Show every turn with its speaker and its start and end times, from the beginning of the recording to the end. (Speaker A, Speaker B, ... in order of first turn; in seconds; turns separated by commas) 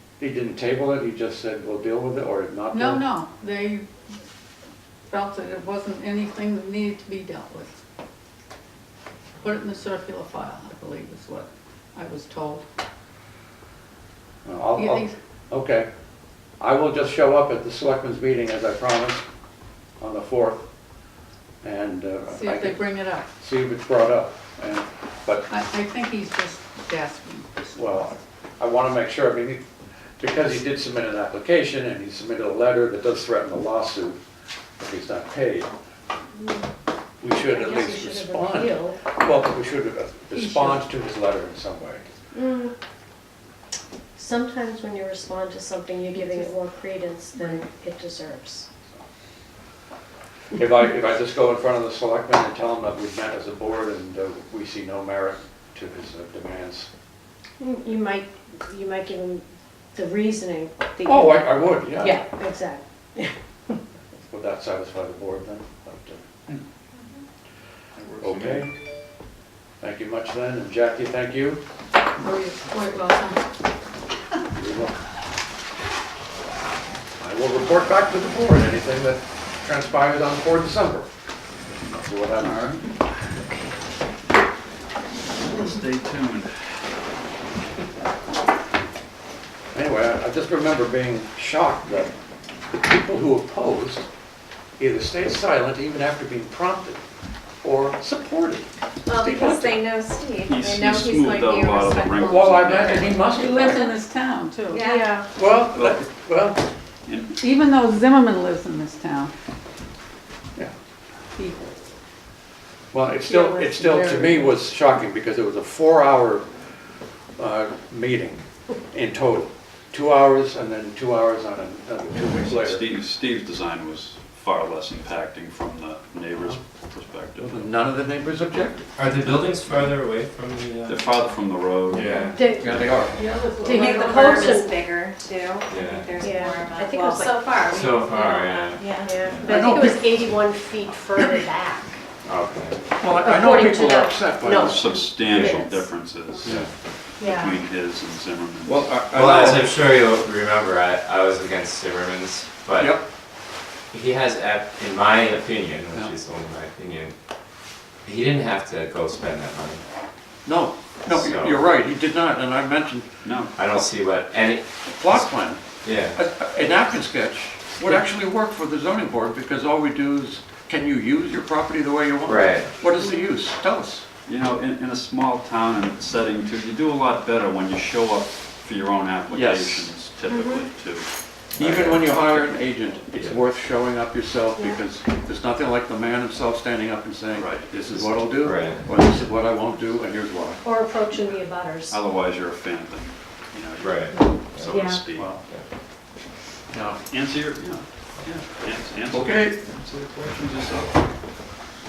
Speaker A: 0.2-3.0, Speaker B: 2.7-3.9, Speaker B: 5.1-7.7, Speaker B: 9.4-12.6, Speaker A: 14.4-15.9, Speaker B: 14.7-15.1, Speaker A: 16.6-19.2, Speaker A: 20.0-20.7, Speaker A: 21.6-25.5, Speaker B: 22.3-23.3, Speaker B: 25.5-28.1, Speaker A: 27.8-29.6, Speaker A: 30.2-34.2, Speaker A: 34.8-35.7, Speaker C: 36.4-36.6, Speaker A: 37.2-42.1, Speaker C: 37.3-39.0, Speaker B: 40.3-40.8, Speaker C: 42.3-42.7, Speaker C: 44.1-48.7, Speaker B: 46.1-46.5, Speaker A: 50.5-56.9, Speaker C: 57.6-59.4, Speaker C: 59.9-63.3, Speaker A: 61.0-62.3, Speaker A: 64.3-66.4, Speaker D: 68.0-68.7, Speaker A: 68.2-68.7, Speaker A: 69.8-71.6, Speaker B: 72.2-73.4, Speaker A: 74.5-75.0, Speaker A: 77.2-81.1, Speaker A: 81.8-82.8, Speaker D: 82.4-82.8, Speaker D: 85.4-86.5, Speaker A: 89.7-92.1, Speaker A: 92.8-94.1, Speaker A: 94.8-97.0, Speaker A: 97.6-99.8, Speaker E: 99.0-103.9, Speaker D: 100.5-103.3, Speaker A: 102.2-103.9, Speaker B: 103.3-104.8, Speaker E: 104.7-105.2, Speaker C: 104.8-105.3, Speaker A: 105.3-106.6, Speaker D: 105.7-106.1, Speaker D: 107.0-107.3, Speaker B: 107.3-109.3, Speaker A: 112.9-116.5, Speaker B: 113.2-114.6, Speaker A: 117.4-122.9, Speaker D: 122.3-127.7, Speaker A: 127.4-128.9, Speaker F: 128.9-131.1, Speaker D: 130.9-132.2, Speaker F: 131.9-132.4, Speaker C: 132.2-132.8, Speaker A: 132.6-133.2, Speaker B: 133.1-134.5, Speaker E: 133.6-139.2, Speaker C: 133.6-134.8, Speaker F: 135.7-136.2, Speaker C: 136.2-137.7, Speaker F: 137.7-139.7, Speaker C: 138.9-141.9, Speaker A: 139.4-140.1, Speaker F: 142.2-142.8, Speaker A: 143.0-144.8, Speaker C: 143.1-145.9, Speaker D: 144.6-146.6, Speaker A: 146.4-146.7, Speaker D: 147.2-149.7, Speaker C: 147.2-147.5, Speaker E: 147.2-147.5, Speaker F: 148.7-153.0, Speaker A: 152.8-153.1, Speaker F: 153.9-157.1, Speaker F: 158.0-159.8, Speaker A: 160.4-163.1, Speaker F: 161.1-161.6, Speaker D: 163.2-163.8, Speaker F: 163.5-165.3, Speaker A: 164.9-174.1, Speaker F: 165.8-166.2, Speaker F: 172.2-172.7, Speaker D: 174.3-181.1, Speaker A: 179.3-179.9, Speaker C: 180.3-180.7, Speaker A: 181.5-190.6, Speaker F: 181.6-182.1, Speaker D: 187.3-188.2, Speaker F: 188.4-188.8, Speaker C: 190.6-192.0, Speaker D: 191.9-195.4, Speaker F: 193.8-194.1, Speaker C: 194.1-195.0, Speaker A: 195.1-195.4, Speaker A: 196.7-197.0, Speaker D: 197.1-201.0, Speaker A: 199.1-199.6